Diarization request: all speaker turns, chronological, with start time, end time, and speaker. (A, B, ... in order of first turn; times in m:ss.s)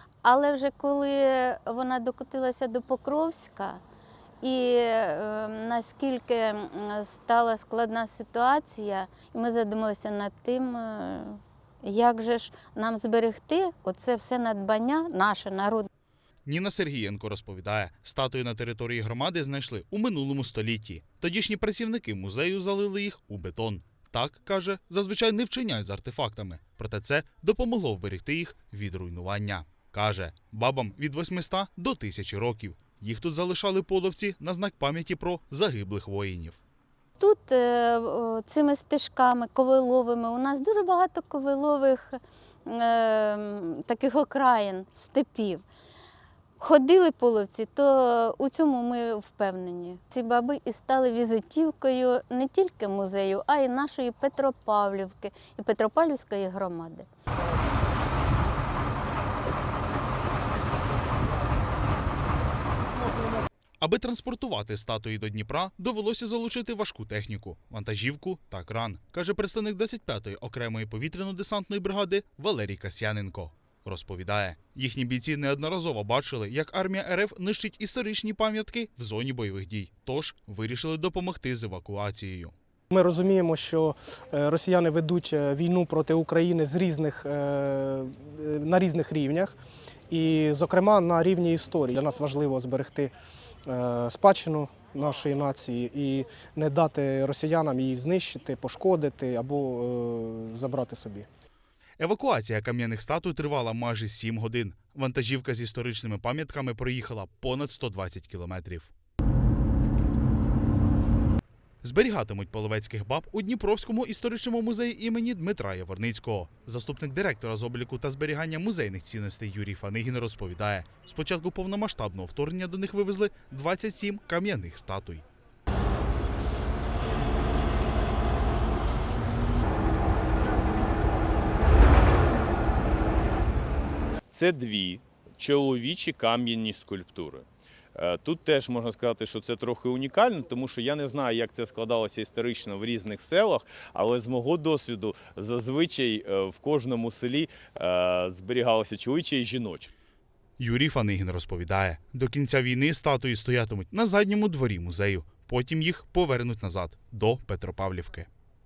0:00.2-0:03.8 A
0:04.4-0:15.9 A
0:16.4-0:36.6 B
0:37.2-0:45.6 A
0:46.6-0:57.1 A
1:03.8-1:22.5 B
1:22.9-1:29.6 C
1:30.1-1:33.1 C
1:33.6-1:41.3 C
1:42.0-1:48.9 B
1:51.8-2:05.2 B
2:14.3-2:29.9 D
2:30.6-2:38.3 B